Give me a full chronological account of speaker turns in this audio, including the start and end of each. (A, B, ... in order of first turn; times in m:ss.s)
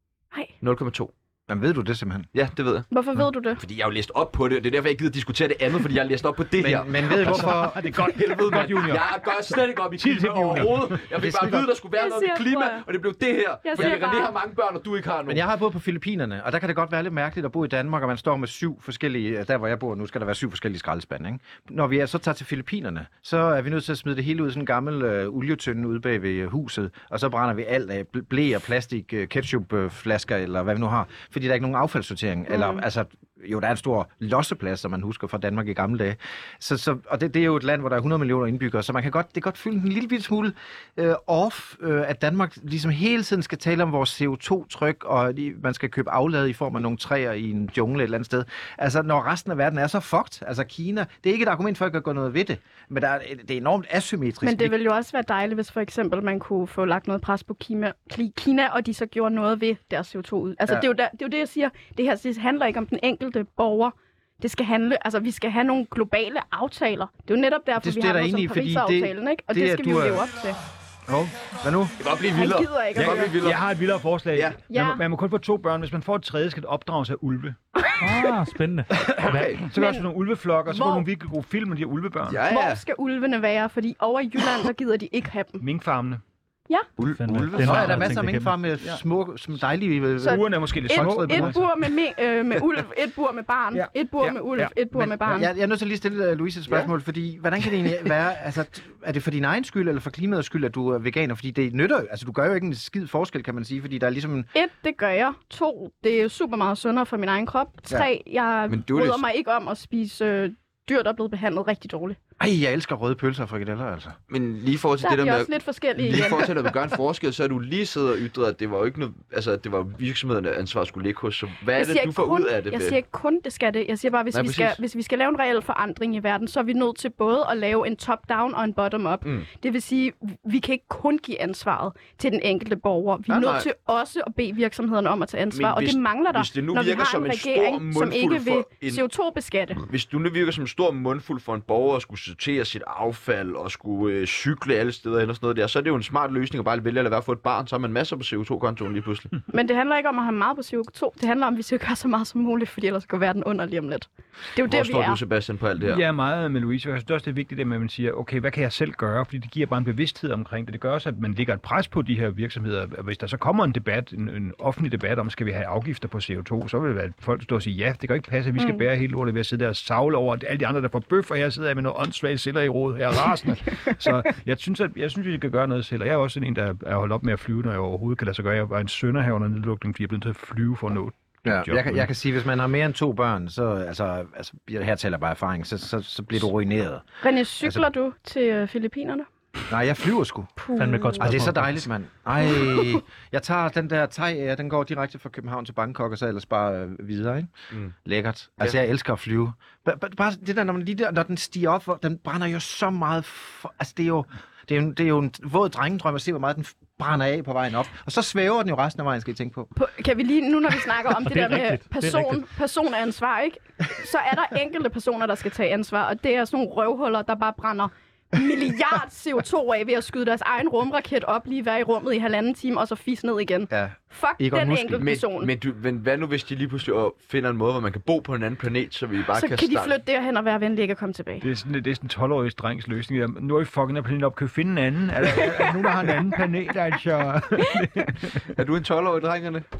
0:00.6-0:01.1 A
0:01.5-0:02.3 B
0:02.3-0:02.8 A
0:02.9-0:03.6 C
0:03.6-0:15.4 A
0:06.6-0:07.9 B
0:07.1-0:11.6 D
0:11.2-0:11.5 B
0:12.0-0:12.8 C
0:13.6-0:14.4 C
0:15.3-0:54.7 B
0:32.5-0:32.8 C
0:54.4-1:10.6 C
1:07.8-1:10.2 B
1:11.1-1:11.9 B
1:12.0-1:13.6 A
1:12.3-1:13.3 C
1:12.9-1:17.6 D
1:14.7-1:15.0 C
1:18.0-1:19.5 E
1:19.2-1:22.4 D
1:19.2-1:19.6 A
1:19.7-1:20.0 C
1:20.7-1:21.0 C
1:22.3-1:22.8 A
1:22.5-1:25.6 C
1:25.6-1:26.2 D
1:27.0-1:28.1 A
1:27.2-1:28.5 E
1:27.5-1:31.6 B
1:30.2-1:35.5 C
1:30.2-1:31.6 D
1:33.7-1:35.1 D
1:35.2-1:44.5 B
1:44.5-1:52.2 C
1:48.7-1:49.2 A
1:52.4-1:54.2 B
1:54.3-2:03.0 A
1:55.0-1:56.5 C
2:01.8-2:19.8 C
2:04.3-2:04.8 A
2:13.3-2:13.7 A
2:15.5-2:19.0 A
2:19.8-2:29.3 A
2:29.5-2:35.2 C
2:34.7-2:36.0 A
2:35.8-3:02.1 D
2:48.6-2:48.8 C
3:01.4-3:07.8 B
3:07.2-3:09.3 C
3:09.7-3:10.5 B
3:10.6-3:11.3 C
3:10.8-3:11.9 E
3:11.2-3:17.5 B
3:12.4-3:13.0 C
3:18.0-3:29.7 B
3:29.7-3:45.5 C
3:31.2-3:32.4 E
3:43.7-3:45.1 B
3:45.0-3:49.9 A
3:49.3-3:51.4 C
3:51.4-3:58.5 D
3:55.3-3:56.2 B
3:58.5-3:59.6 A